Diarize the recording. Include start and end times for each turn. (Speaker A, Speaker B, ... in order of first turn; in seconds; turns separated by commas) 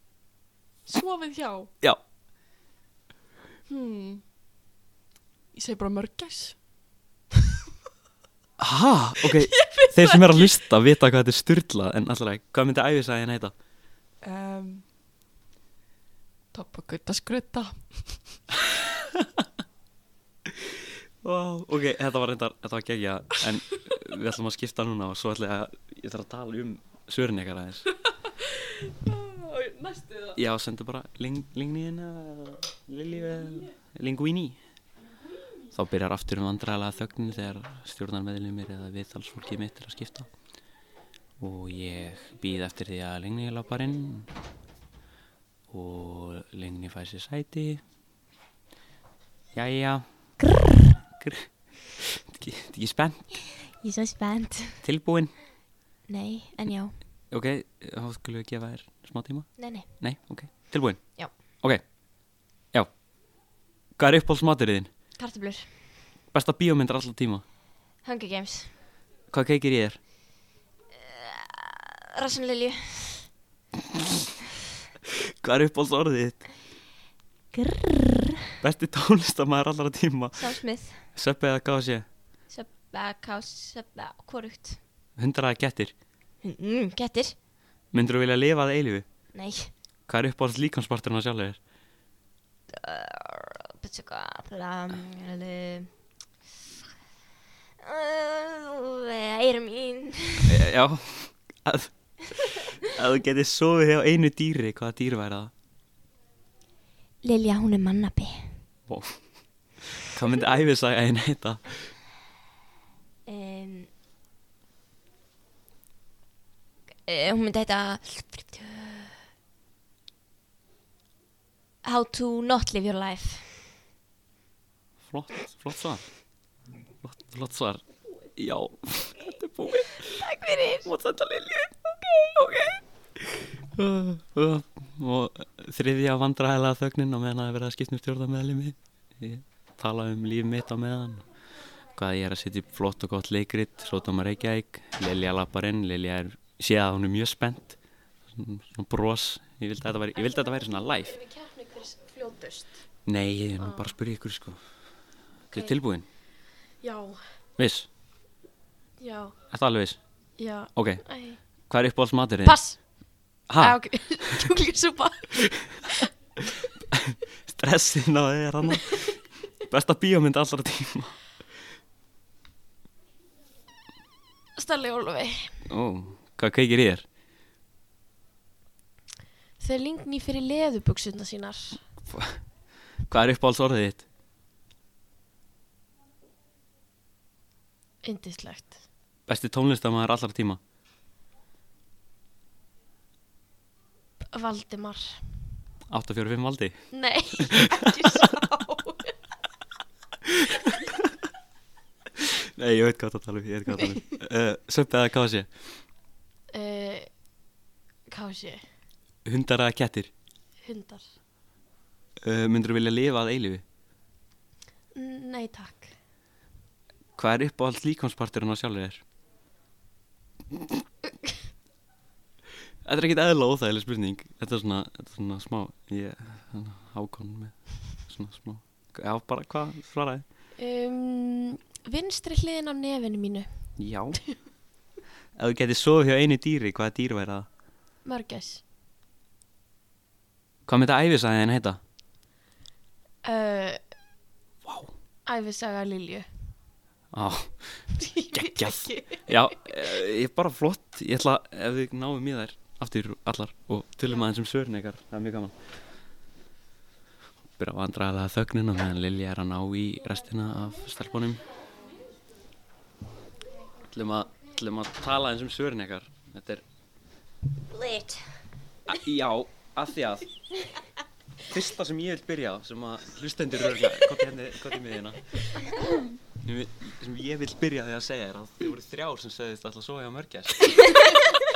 Speaker A: 0.9-1.7, Speaker A: 3.7-4.2, Speaker A: 5.5-6.7, Speaker B: 8.6-13.6, Speaker A: 9.3-10.5, Speaker A: 14.2-14.9, Speaker A: 16.5-18.4, Speaker B: 21.2-27.9, Speaker A: 28.8-30.4, Speaker B: 30.4-34.6, Speaker A: 33.1-33.7, Speaker B: 35.7-40.3, Speaker B: 41.4-44.3, Speaker B: 45.7-47.8, Speaker B: 49.5-50.3, Speaker C: 50.4-50.9, Speaker B: 51.1-53.4, Speaker C: 53.4-54.9, Speaker B: 54.8-55.5, Speaker C: 56.1-57.0, Speaker B: 57.3-63.0, Speaker C: 59.6-60.0, Speaker C: 61.1-61.6, Speaker B: 64.0-64.9, Speaker C: 65.2-66.1, Speaker B: 66.3-67.5, Speaker C: 68.0-68.8, Speaker B: 69.3-70.0, Speaker C: 70.9-73.3, Speaker B: 75.4-76.5, Speaker C: 77.5-78.5, Speaker B: 78.6-82.1, Speaker C: 80.3-81.1, Speaker C: 82.5-84.8, Speaker B: 85.2-86.0, Speaker C: 86.4-87.4, Speaker B: 87.9-89.1, Speaker C: 89.3-89.8, Speaker B: 90.1-91.6, Speaker C: 92.7-95.9, Speaker C: 97.8-100.6, Speaker B: 100.5-105.5, Speaker C: 107.2-108.7, Speaker B: 108.9-111.9, Speaker C: 113.3-113.9, Speaker C: 117.0-119.3, Speaker C: 121.8-123.8, Speaker B: 125.1-126.5, Speaker B: 127.0-130.3, Speaker C: 130.0-132.8, Speaker B: 130.8-131.7, Speaker B: 133.2-151.1, Speaker D: 150.1-152.8, Speaker B: 153.1-154.6, Speaker D: 153.6-153.9, Speaker B: 155.5-156.1, Speaker D: 155.5-157.2, Speaker B: 157.6-157.9, Speaker D: 159.0-159.4, Speaker B: 159.5-162.9, Speaker D: 160.4-161.5, Speaker D: 162.4-166.1, Speaker B: 163.5-164.5, Speaker B: 165.4-165.8, Speaker B: 166.9-171.2, Speaker D: 174.6-175.6, Speaker B: 175.7-177.1, Speaker D: 179.6-181.9, Speaker B: 182.1-184.1, Speaker D: 188.0-188.8, Speaker B: 189.3-190.6, Speaker D: 194.3-195.4, Speaker B: 195.9-198.2, Speaker D: 196.9-199.1, Speaker B: 200.3-201.1, Speaker B: 202.2-205.8, Speaker D: 206.5-207.2, Speaker D: 208.1-208.7, Speaker B: 209.2-210.1, Speaker D: 210.6-211.1, Speaker B: 212.2-213.6, Speaker D: 214.9-215.9, Speaker B: 217.2-219.0, Speaker B: 222.8-230.3, Speaker D: 230.6-234.4, Speaker B: 233.8-234.4, Speaker B: 235.4-237.5, Speaker D: 238.1-238.6, Speaker B: 240.7-241.8, Speaker D: 243.2-243.8, Speaker B: 244.7-244.9, Speaker D: 245.3-246.3, Speaker B: 247.1-255.6, Speaker D: 248.0-249.3, Speaker B: 257.6-261.5, Speaker B: 263.9-266.6, Speaker C: 267.7-268.2, Speaker B: 268.9-270.4, Speaker B: 271.5-275.8, Speaker B: 276.4-280.9